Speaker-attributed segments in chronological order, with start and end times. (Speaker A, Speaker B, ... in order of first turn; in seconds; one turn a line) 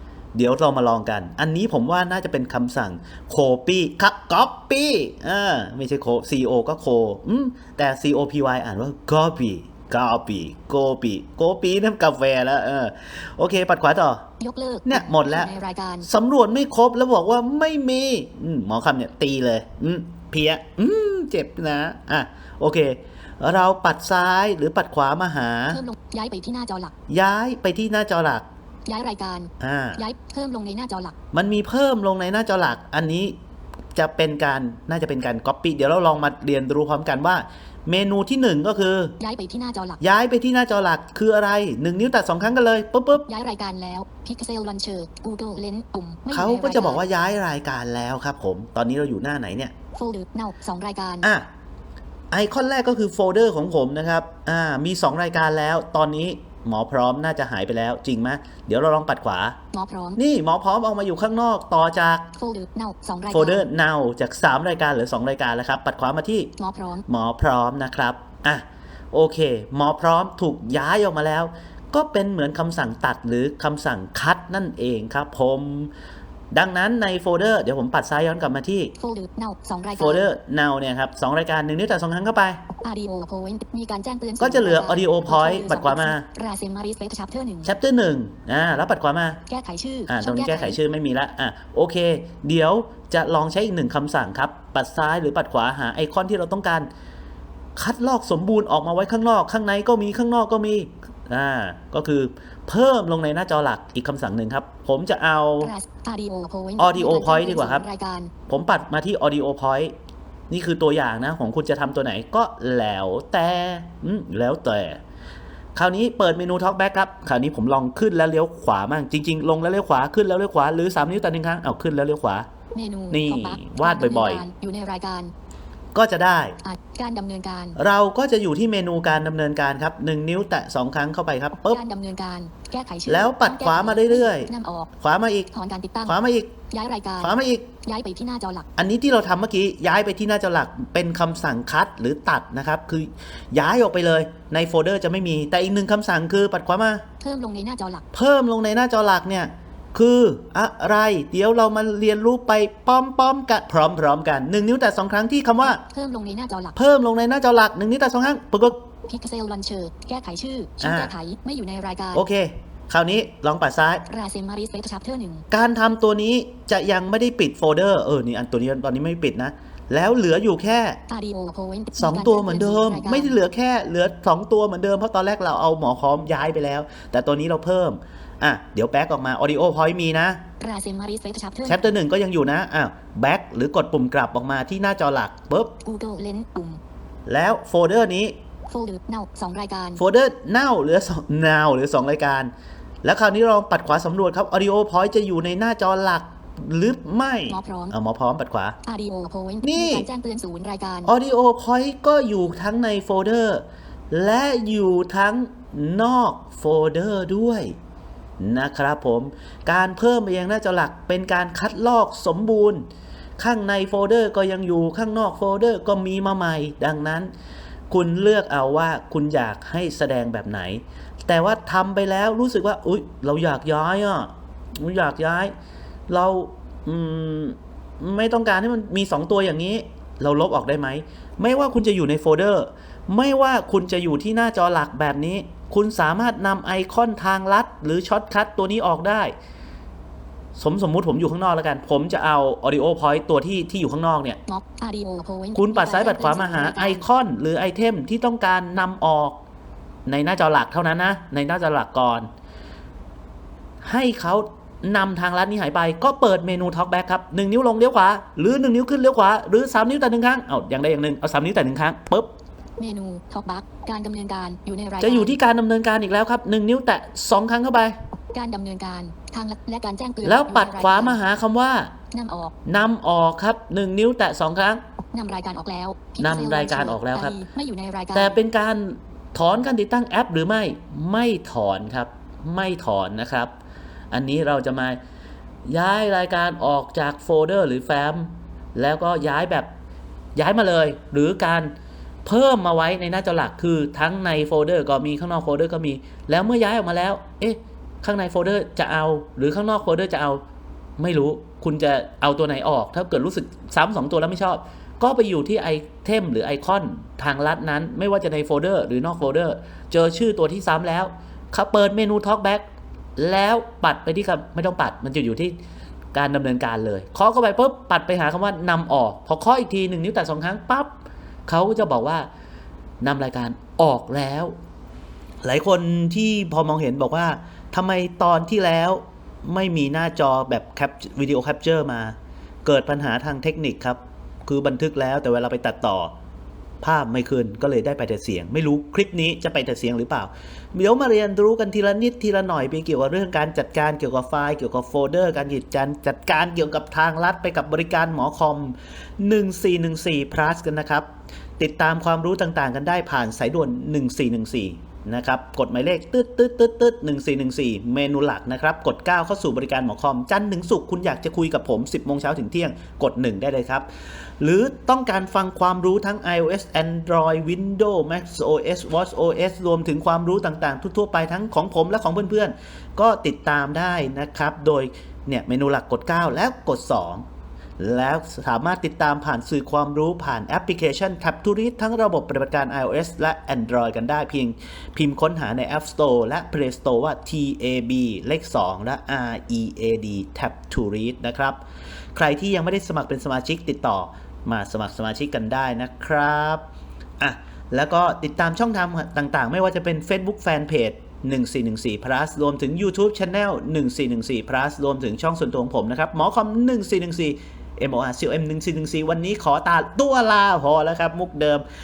Speaker A: 0.3-14.2
Speaker B: 14.4-16.1
Speaker A: 14.9-15.5
Speaker A: 16.0-25.8
Speaker B: 25.7-26.9
Speaker A: 27.1-28.4
Speaker B: 28.9-31.1
Speaker A: 29.6-30.0
Speaker A: 31.3-33.3
Speaker A: 33.9-39.1
Speaker B: 39.2-40.0
Speaker A: 40.0-43.2
Speaker B: 43.3-47.0
Speaker A: 46.3-49.7
Speaker B: 49.9-51.3
Speaker A: 51.2-51.5
Speaker A: 52.3-59.6
Speaker B: 59.7-60.2
Speaker A: 60.1-62.3
Speaker B: 62.4-63.6
Speaker A: 63.3-66.5
Speaker B: 66.6-67.0
Speaker A: 67.0-75.9
Speaker A: 76.5-78.9
Speaker B: 79.0-80.2
Speaker A: 80.0-82.6
Speaker B: 82.8-87.7
Speaker A: 84.4-86.2
Speaker A: 87.6-89.4
Speaker B: 89.5-90.8
Speaker A: 90.1-96.9
Speaker A: 97.8-105.7
Speaker B: 105.6-108.3
Speaker A: 106.8-107.8
Speaker A: 108.5-109.9
Speaker A: 110.5-115.0
Speaker A: 115.7-122.5
Speaker B: 122.7-125.3
Speaker A: 123.1-124.4
Speaker A: 125.9-126.6
Speaker B: 126.6-127.8
Speaker A: 127.8-131.8
Speaker B: 131.7-134.9
Speaker A: 133.1-135.5
Speaker B: 135.5-136.2
Speaker A: 136.0-136.5
Speaker B: 136.7-138.7
Speaker A: 137.2-137.7
Speaker A: 138.8-147.0
Speaker B: 147.2-148.1
Speaker A: 148.1-155.8
Speaker B: 155.6-156.8
Speaker A: 156.7-158.8
Speaker B: 159.1-162.2
Speaker A: 160.8-161.1
Speaker A: 162.1-164.0
Speaker B: 164.1-165.4
Speaker A: 165.5-171.0
Speaker B: 171.1-173.4
Speaker A: 171.9-180.4
Speaker B: 180.6-181.8
Speaker A: 181.7-185.7
Speaker B: 185.8-186.8
Speaker A: 187.2-188.3
Speaker B: 188.7-190.0
Speaker A: 190.0-192.5
Speaker A: 193.0-198.8
Speaker B: 197.5-197.9
Speaker B: 198.8-201.1
Speaker A: 199.6-200.1
Speaker A: 201.1-207.7
Speaker A: 208.4-212.8
Speaker A: 213.4-217.3
Speaker A: 217.9-225.5
Speaker A: 226.1-239.3
Speaker A: 240.6-244.4
Speaker B: 244.5-247.1
Speaker A: 245.5-249.4
Speaker A: 250.1-252.3
Speaker A: 253.8-262.3
Speaker B: 262.8-265.4
Speaker A: 265.0-267.9
Speaker B: 268.3-271.2
Speaker A: 270.2-271.9
Speaker B: 272.1-272.5
Speaker A: 272.6-274.8
Speaker B: 275.1-278.4
Speaker A: 276.2-277.4
Speaker A: 278.1-283.5
Speaker A: 284.1-285.0
Speaker A: 285.6-289.7
Speaker A: 290.4-291.7
Speaker A: 292.2-300.4
Speaker A: 301.0-312.6
Speaker A: 313.2-315.5
Speaker A: 316.1-320.9
Speaker A: 321.5-322.3
Speaker A: 323.0-324.5
Speaker A: 325.4-336.1
Speaker A: 336.8-351.1
Speaker A: 351.6-363.9
Speaker A: 364.4-377.2
Speaker A: 377.8-391.6
Speaker A: 392.1-396.6
Speaker A: 397.2-411.6